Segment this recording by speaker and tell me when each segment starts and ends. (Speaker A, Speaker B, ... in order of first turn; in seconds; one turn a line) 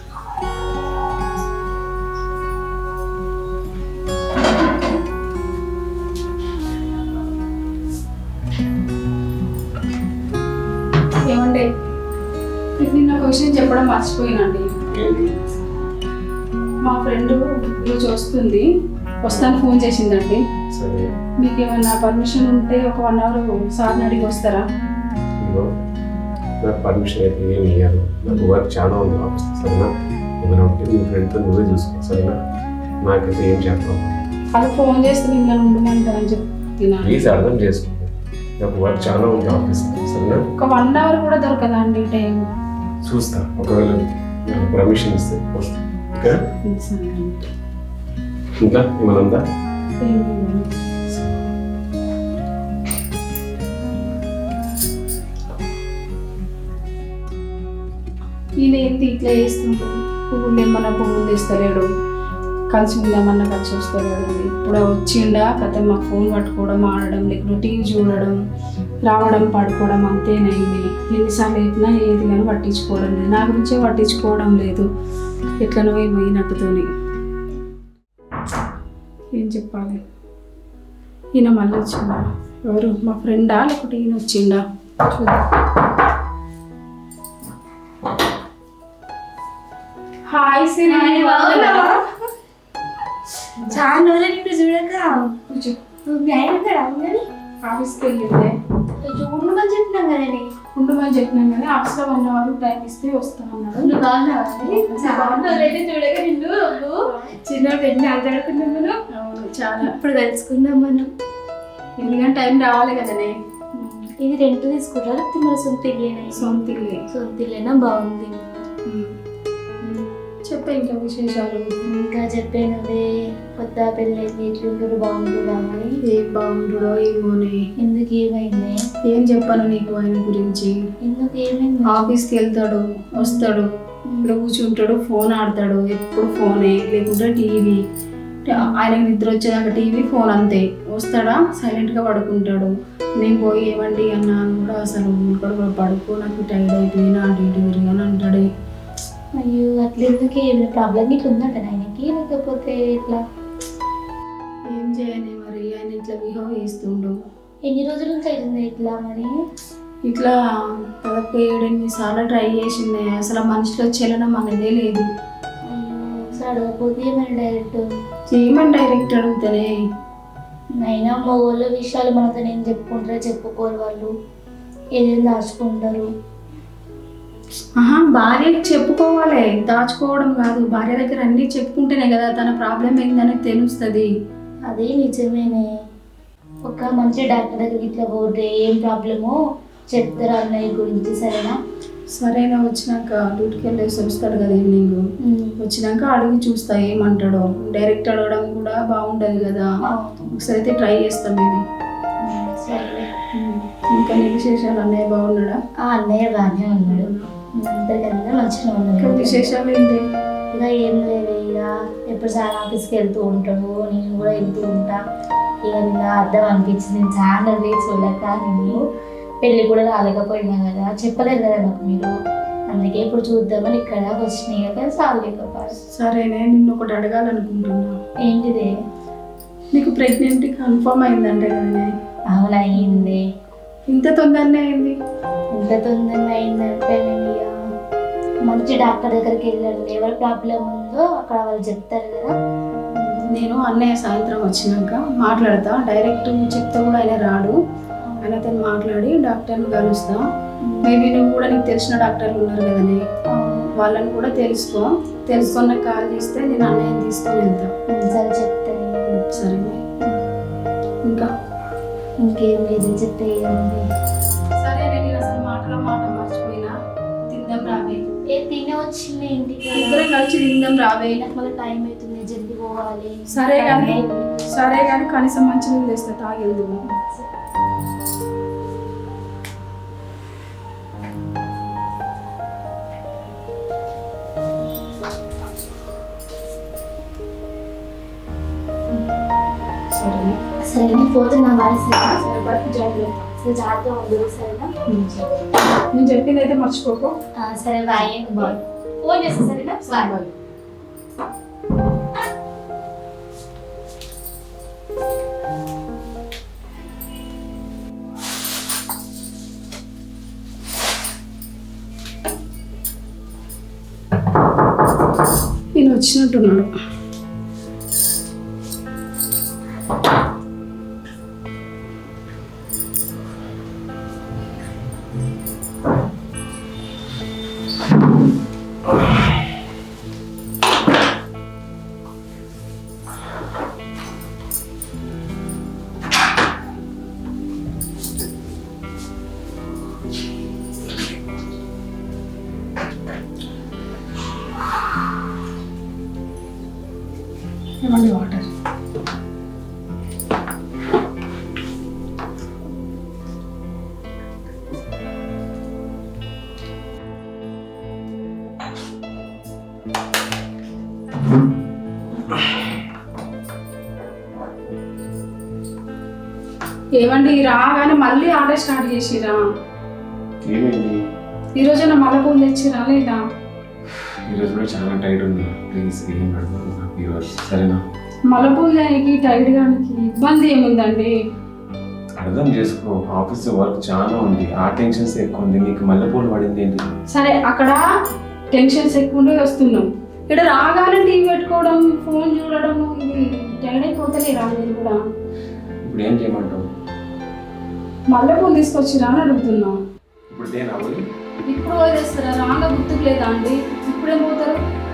Speaker A: 11.3-11.6
Speaker A: 12.8-14.7
Speaker B: 14.9-15.3
Speaker A: 16.9-18.7
Speaker A: 19.2-20.4
Speaker B: 20.7-21.1
Speaker A: 21.4-24.6
Speaker B: 25.4-25.7
Speaker B: 26.6-29.9
Speaker B: 30.4-32.4
Speaker B: 33.0-34.1
Speaker A: 34.5-37.2
Speaker B: 37.0-40.4
Speaker A: 40.6-42.5
Speaker B: 43.0-46.4
Speaker A: 46.7-47.5
Speaker B: 48.6-49.4
Speaker A: 50.0-50.7
Speaker B: 51.1-51.4
Speaker A: 58.6-61.9
Speaker A: 62.7-68.4
Speaker A: 69.0-74.9
Speaker A: 75.6-76.9
Speaker A: 79.3-80.0
Speaker A: 81.4-85.5
Speaker A: 90.3-92.0
Speaker C: 90.8-92.0
Speaker C: 93.6-95.3
Speaker A: 95.5-95.8
Speaker C: 96.1-97.2
Speaker A: 97.7-98.5
Speaker C: 99.0-100.5
Speaker A: 100.8-103.9
Speaker C: 103.8-109.0
Speaker A: 104.6-105.8
Speaker A: 109.1-109.9
Speaker C: 109.8-111.1
Speaker A: 112.0-113.3
Speaker C: 113.8-118.6
Speaker A: 116.3-117.0
Speaker A: 120.5-121.8
Speaker C: 121.9-123.0
Speaker C: 123.6-125.9
Speaker A: 126.1-127.6
Speaker C: 127.8-128.8
Speaker A: 129.1-130.7
Speaker C: 131.0-132.2
Speaker A: 131.9-133.7
Speaker C: 133.2-133.5
Speaker C: 134.1-134.4
Speaker A: 134.2-137.8
Speaker A: 138.5-148.5
Speaker C: 149.4-153.2
Speaker A: 154.7-157.2
Speaker C: 157.7-159.4
Speaker A: 160.1-160.3
Speaker A: 161.0-165.1
Speaker C: 165.7-167.8
Speaker A: 168.3-169.7
Speaker C: 170.8-174.1
Speaker C: 175.0-176.1
Speaker A: 177.8-184.1
Speaker C: 184.7-185.7
Speaker C: 186.7-189.4
Speaker C: 189.9-191.6
Speaker A: 192.2-195.0
Speaker C: 195.2-195.6
Speaker A: 195.6-199.7
Speaker C: 199.9-200.3
Speaker A: 200.3-201.6
Speaker C: 202.2-203.1
Speaker A: 203.3-205.6
Speaker C: 205.9-209.5
Speaker A: 206.8-207.3
Speaker A: 209.0-210.0
Speaker C: 210.5-215.0
Speaker C: 215.7-218.8
Speaker C: 219.4-222.1
Speaker C: 222.7-225.8
Speaker A: 225.9-227.9
Speaker C: 228.3-228.7
Speaker A: 229.7-231.9
Speaker C: 232.3-233.2
Speaker A: 232.8-233.2
Speaker A: 233.9-234.9
Speaker C: 235.5-237.5
Speaker C: 238.4-242.3
Speaker A: 243.3-247.6
Speaker C: 248.0-248.4
Speaker A: 248.2-250.2
Speaker C: 250.7-250.9
Speaker A: 250.8-253.0
Speaker C: 253.3-253.7
Speaker A: 253.8-257.7
Speaker C: 257.9-259.1
Speaker A: 259.1-259.8
Speaker C: 262.2-263.8
Speaker A: 264.6-266.7
Speaker A: 267.3-268.0
Speaker C: 268.3-270.1
Speaker A: 269.8-271.3
Speaker C: 271.1-274.3
Speaker A: 273.3-276.8
Speaker C: 276.8-277.3
Speaker A: 289.9-290.4
Speaker C: 290.7-292.2
Speaker A: 292.1-293.3
Speaker C: 293.4-294.7
Speaker A: 294.9-295.3
Speaker A: 295.9-297.1
Speaker C: 297.4-300.1
Speaker A: 298.1-298.6
Speaker A: 299.8-300.3
Speaker A: 315.8-316.7
Speaker A: 347.8-348.5
Speaker A: 367.0-369.4
Speaker B: 370.4-371.0
Speaker A: 371.6-373.2
Speaker B: 374.3-377.8
Speaker A: 378.3-381.1
Speaker B: 382.2-386.9
Speaker A: 387.1-387.8
Speaker A: 388.5-395.0
Speaker B: 395.8-396.6
Speaker A: 398.1-399.8
Speaker B: 400.3-401.0
Speaker A: 401.5-404.6